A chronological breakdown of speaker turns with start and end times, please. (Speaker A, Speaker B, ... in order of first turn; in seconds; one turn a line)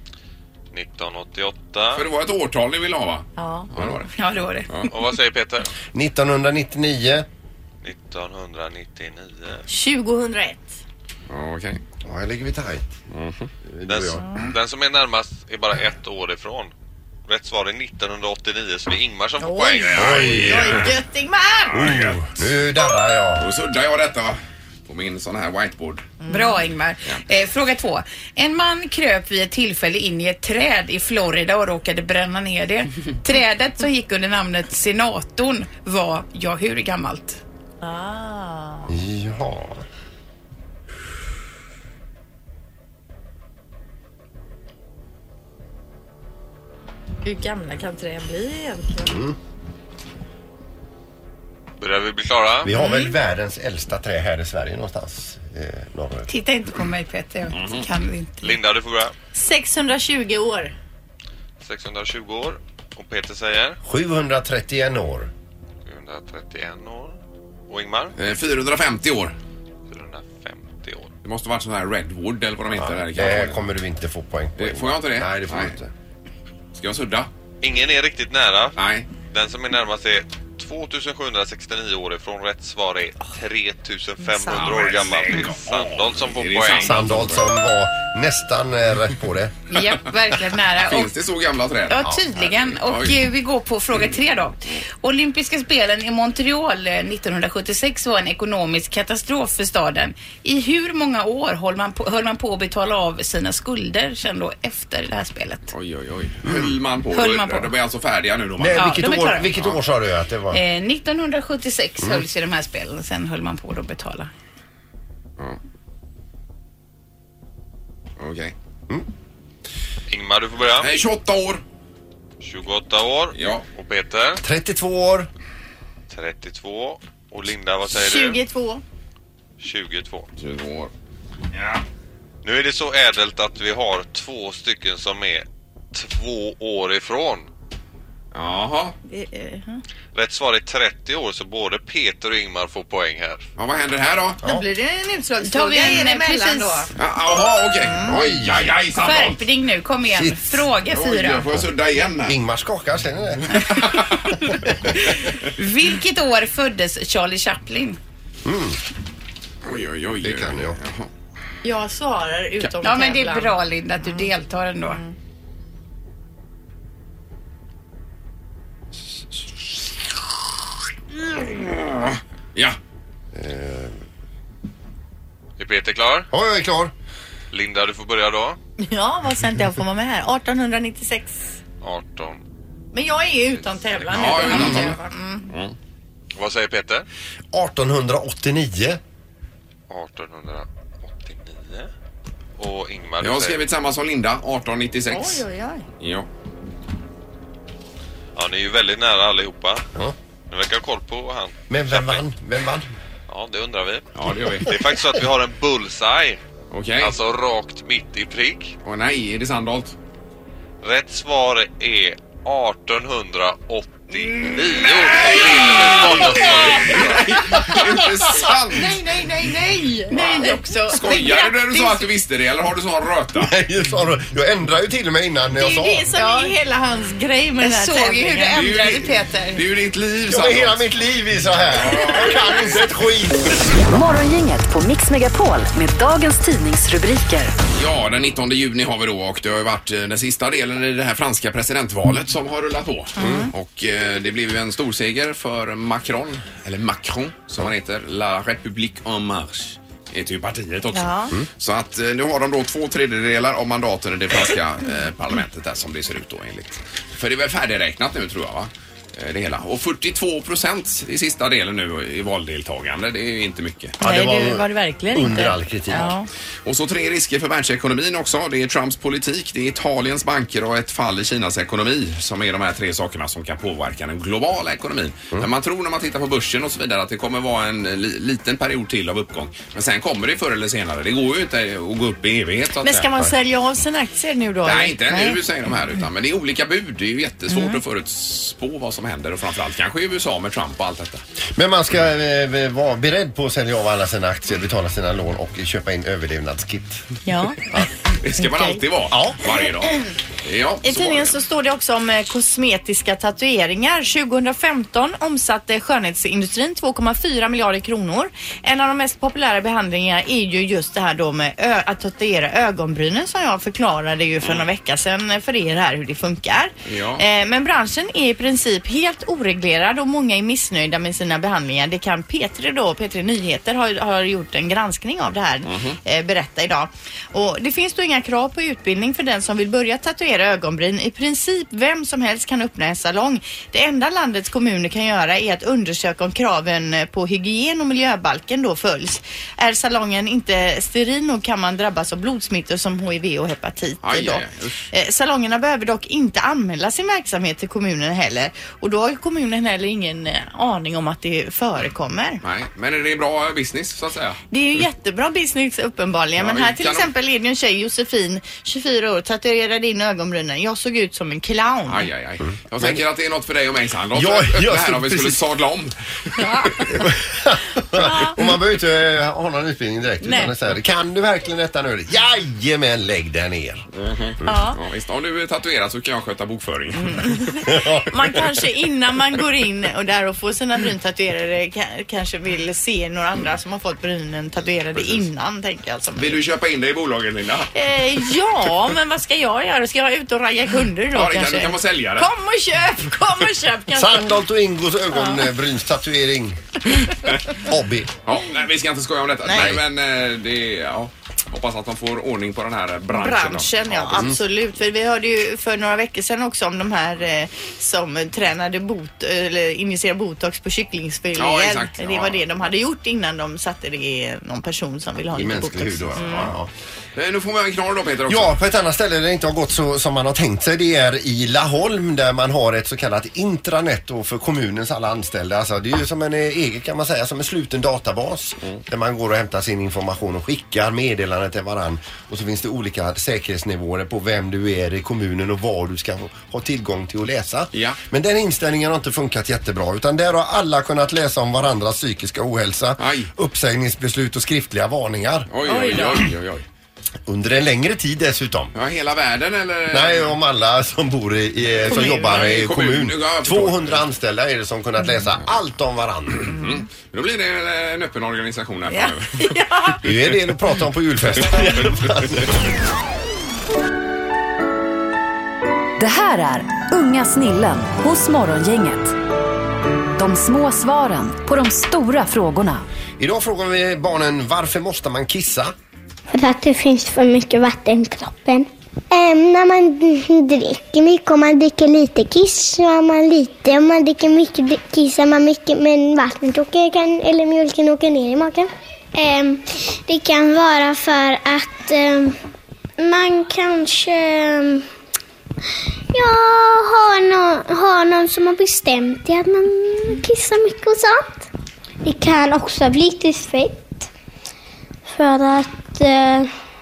Speaker A: 0.7-2.0
Speaker B: 1.9-4.1
Speaker C: 3.4-4.0
Speaker D: 4.1-4.7
Speaker A: 4.9-5.7
Speaker E: 5.9-7.2
Speaker A: 7.8-9.6
Speaker C: 9.7-10.8
Speaker B: 11.3-11.8
Speaker E: 12.0-12.8
Speaker B: 13.1-13.5
Speaker E: 13.7-14.3
Speaker A: 13.9-16.7
Speaker A: 17.3-20.2
Speaker C: 19.4-21.9
Speaker B: 19.8-20.9
Speaker E: 19.9-20.9
Speaker B: 21.7-22.2
Speaker E: 21.7-23.5
Speaker B: 23.4-26.0
Speaker C: 26.2-26.6
Speaker D: 26.3-37.4
Speaker C: 37.8-38.9
Speaker E: 38.9-39.8
Speaker C: 47.2-49.2
Speaker E: 49.0-49.4
Speaker A: 51.8-52.7
Speaker E: 52.6-56.3
Speaker C: 52.7-53.2
Speaker D: 56.3-58.5
Speaker B: 57.5-57.9
Speaker A: 58.4-59.1
Speaker C: 59.3-60.7
Speaker A: 61.6-63.8
Speaker E: 63.8-65.3
Speaker A: 65.8-67.2
Speaker A: 67.7-68.1
Speaker B: 68.2-69.3
Speaker A: 69.9-71.1
Speaker B: 71.2-73.7
Speaker E: 72.8-75.9
Speaker B: 74.6-75.8
Speaker B: 76.7-77.3
Speaker A: 77.6-78.8
Speaker B: 78.8-79.1
Speaker A: 79.3-87.0
Speaker C: 84.3-84.9
Speaker B: 84.5-87.4
Speaker E: 86.8-89.5
Speaker D: 89.7-91.1
Speaker B: 90.8-93.2
Speaker D: 91.9-105.7
Speaker B: 105.7-108.9
Speaker E: 106.5-106.7
Speaker D: 107.1-107.7
Speaker E: 108.6-110.6
Speaker D: 108.7-109.5
Speaker B: 109.5-109.8
Speaker D: 110.5-114.3
Speaker B: 118.2-118.5
Speaker A: 120.1-120.9
Speaker B: 120.8-121.6
Speaker A: 122.4-124.4
Speaker B: 123.3-123.6
Speaker E: 124.4-125.3
Speaker A: 126.1-128.4
Speaker C: 127.9-128.8
Speaker A: 129.6-130.3
Speaker B: 130.4-130.9
Speaker B: 131.5-131.8
Speaker A: 132.4-137.5
Speaker B: 138.3-138.9
Speaker C: 139.1-139.8
Speaker A: 140.1-143.4
Speaker B: 143.6-144.4
Speaker C: 144.4-146.9
Speaker D: 145.4-146.9
Speaker B: 146.9-149.4
Speaker C: 147.8-148.2
Speaker E: 148.0-148.7
Speaker D: 149.0-151.5
Speaker E: 150.1-150.6
Speaker B: 150.9-152.4
Speaker E: 152.2-153.8
Speaker B: 153.5-154.4
Speaker D: 154.8-158.0
Speaker E: 158.4-158.8
Speaker B: 159.6-161.1
Speaker E: 160.2-160.8
Speaker C: 161.6-164.3
Speaker D: 162.8-165.0
Speaker C: 164.8-165.1
Speaker B: 171.2-172.8
Speaker E: 173.3-173.9
Speaker A: 175.6-176.3
Speaker E: 176.3-176.9
Speaker A: 177.5-178.6
Speaker C: 178.8-181.5
Speaker A: 181.8-182.4
Speaker C: 182.9-185.5
Speaker B: 184.1-185.7
Speaker A: 186.3-187.0
Speaker E: 187.5-189.0
Speaker A: 189.9-191.9
Speaker A: 192.6-193.6
Speaker B: 193.2-195.4
Speaker C: 195.1-195.8
Speaker B: 196.0-196.3
Speaker A: 198.3-199.8
Speaker A: 200.5-202.2
Speaker E: 201.7-202.8
Speaker A: 203.3-204.1
Speaker B: 204.1-204.7
Speaker A: 204.6-206.4
Speaker B: 206.7-207.1
Speaker A: 207.0-208.7
Speaker B: 208.8-209.9
Speaker A: 210.8-217.2
Speaker B: 214.2-219.0
Speaker C: 218.3-222.1
Speaker B: 220.1-223.5
Speaker E: 223.3-226.1
Speaker C: 225.6-228.7
Speaker D: 226.1-226.5
Speaker D: 227.6-229.6
Speaker B: 228.5-230.9
Speaker E: 230.3-233.8
Speaker B: 231.7-232.9
Speaker F: 233.9-237.5
Speaker B: 237.7-264.0
Speaker E: 243.2-243.5
Speaker C: 243.2-243.5
Speaker C: 250.9-251.3
Speaker E: 264.0-266.1
Speaker C: 264.0-266.3
Speaker B: 266.6-283.1
Speaker C: 282.8-285.4
Speaker B: 284.6-291.2
Speaker C: 287.5-287.8
Speaker E: 291.6-297.0
Speaker C: 297.2-297.6
Speaker B: 298.2-301.4
Speaker C: 298.4-298.8
Speaker E: 299.1-299.5
Speaker C: 299.6-300.0
Speaker C: 300.8-352.4
Speaker B: 314.4-314.7
Speaker B: 316.9-317.2
Speaker B: 325.6-326.0
Speaker B: 344.0-344.8
Speaker B: 352.4-354.4
Speaker C: 354.5-362.1
Speaker B: 356.4-357.1
Speaker B: 361.9-365.9
Speaker E: 362.8-363.0
Speaker E: 364.1-365.4
Speaker C: 366.4-366.7
Speaker E: 366.8-373.9
Speaker C: 368.0-368.4
Speaker B: 374.0-377.4
Speaker C: 374.4-374.7
Speaker C: 376.9-386.4
Speaker E: 377.6-378.4
Speaker B: 384.9-385.2
Speaker B: 386.1-387.7
Speaker C: 387.7-394.3
Speaker B: 391.1-392.3
Speaker E: 393.9-396.8
Speaker C: 395.1-395.4
Speaker E: 397.6-398.1
Speaker B: 398.2-404.3
Speaker C: 399.4-399.7
Speaker E: 399.5-399.8
Speaker C: 403.1-416.5
Speaker E: 404.1-404.4
Speaker B: 411.4-412.4
Speaker E: 415.3-416.7
Speaker B: 417.1-418.6
Speaker E: 418.3-445.5
Speaker B: 437.7-438.0
Speaker B: 443.0-443.3
Speaker B: 445.5-446.6
Speaker C: 445.6-446.3
Speaker E: 447.3-448.7
Speaker B: 448.7-450.3
Speaker E: 449.9-456.5
Speaker B: 451.8-454.0
Speaker C: 451.9-452.6
Speaker B: 456.4-460.1
Speaker C: 458.9-460.0
Speaker E: 460.0-462.5
Speaker B: 461.4-462.5
Speaker F: 466.0-469.1
Speaker F: 470.2-472.8
Speaker E: 473.2-475.7
Speaker G: 476.3-492.3
Speaker G: 493.0-494.9
Speaker G: 496.1-501.5
Speaker G: 502.0-504.1
Speaker G: 505.1-506.5